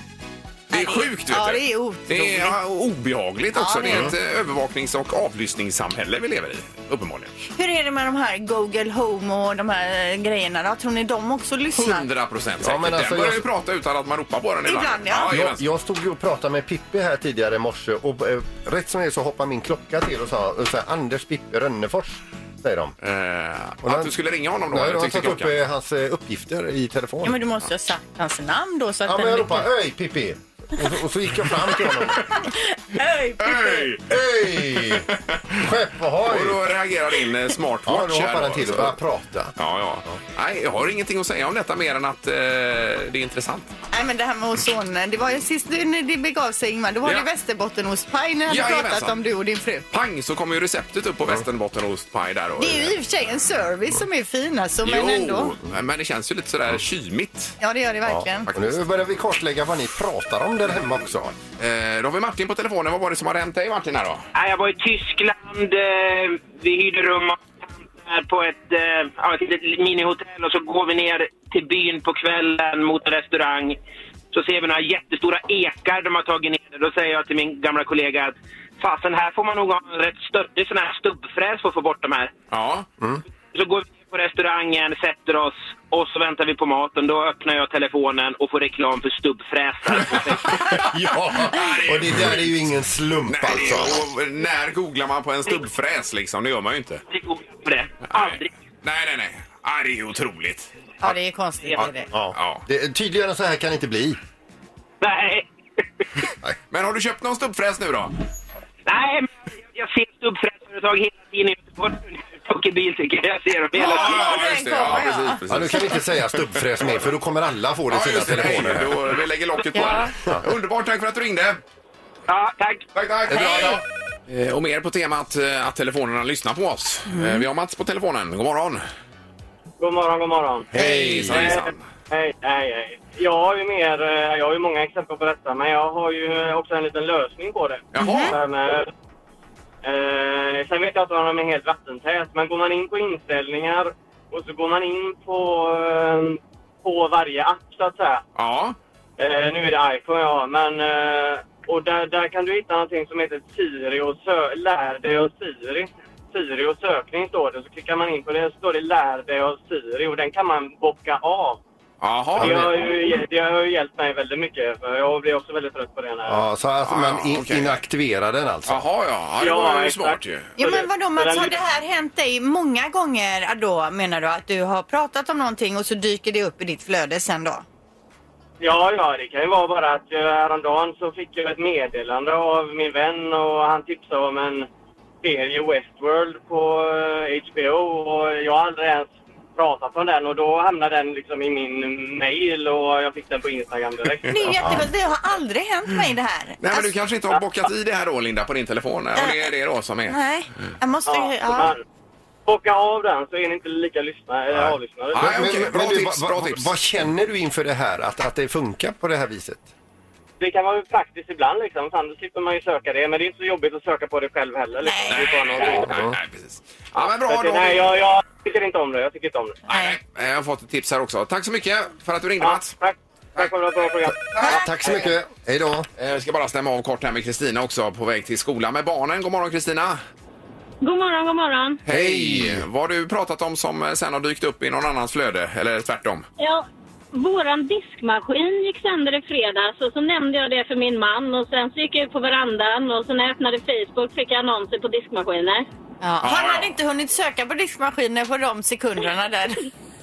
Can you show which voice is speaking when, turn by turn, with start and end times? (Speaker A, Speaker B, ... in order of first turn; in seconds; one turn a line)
Speaker A: 0.7-7.3
Speaker B: 0.7-2.6
Speaker B: 3.5-4.1
Speaker C: 3.9-4.1
Speaker B: 7.5-12.1
Speaker A: 11.7-15.6
Speaker C: 12.6-13.4
Speaker B: 14.6-15.3
Speaker C: 15.3-22.9
Speaker A: 23.0-25.5
Speaker C: 23.8-24.1
Speaker C: 24.7-27.4
Speaker B: 27.2-29.7
Speaker C: 29.1-32.2
Speaker B: 32.3-33.9
Speaker A: 33.4-34.1
Speaker C: 34.1-36.6
Speaker A: 34.7-35.6
Speaker A: 36.2-39.0
Speaker C: 37.8-39.5
Speaker A: 39.6-43.7
Speaker B: 43.9-49.8
Speaker A: 48.5-49.1
Speaker A: 49.9-52.9
Speaker B: 52.6-55.5
Speaker A: 54.8-57.5
Speaker B: 57.6-58.5
Speaker C: 58.0-61.4
Speaker A: 58.5-58.8
Speaker A: 61.6-64.2
Speaker D: 64.3-73.8
Speaker D: 74.3-82.3
Speaker A: 82.5-82.8
Speaker D: 83.5-90.6
Speaker C: 90.6-94.0
Speaker A: 91.4-92.5
Speaker A: 93.3-97.0
Speaker D: 97.1-98.5
Speaker A: 98.0-100.7
Speaker B: 101.0-102.1
Speaker C: 102.1-104.2
Speaker A: 102.3-102.6
Speaker D: 105.0-105.5
Speaker A: 106.7-108.1
Speaker D: 108.9-114.3
Speaker A: 113.8-116.1
Speaker B: 113.8-115.4
Speaker C: 115.5-119.0
Speaker A: 117.9-121.6
Speaker B: 119.7-120.1
Speaker D: 122.3-122.8
Speaker A: 122.9-128.8
Speaker B: 123.3-123.8
Speaker B: 127.1-127.4
Speaker E: 129.8-138.9
Speaker C: 130.7-131.6
Speaker A: 130.7-131.8
Speaker A: 137.9-138.3
Speaker B: 138.0-138.3
Speaker E: 139.8-148.2
Speaker A: 148.3-148.8
Speaker E: 149.2-161.6
Speaker A: 162.0-162.7
Speaker E: 162.3-166.4
Speaker C: 162.4-162.7
Speaker C: 166.2-168.8
Speaker A: 166.8-167.8
Speaker A: 168.7-170.5
Speaker E: 169.4-171.6
Speaker B: 170.6-177.6
Speaker E: 178.6-184.7
Speaker E: 185.2-194.6
Speaker B: 194.3-196.9
Speaker A: 196.6-200.2
Speaker B: 199.2-199.5
Speaker B: 200.1-201.7
Speaker E: 201.1-201.8
Speaker E: 202.4-205.4
Speaker C: 204.5-209.7
Speaker A: 205.1-206.7
Speaker E: 210.4-215.9
Speaker B: 214.8-215.8
Speaker A: 215.1-218.0
Speaker C: 215.9-216.1
Speaker E: 217.0-219.6
Speaker A: 219.7-222.7
Speaker B: 219.7-219.9
Speaker E: 222.4-225.0
Speaker C: 224.4-225.9
Speaker A: 226.0-230.0
Speaker F: 230.8-231.8
Speaker A: 231.8-236.2
Speaker C: 231.9-232.6
Speaker F: 236.4-245.7
Speaker B: 246.0-249.6
Speaker A: 246.2-246.7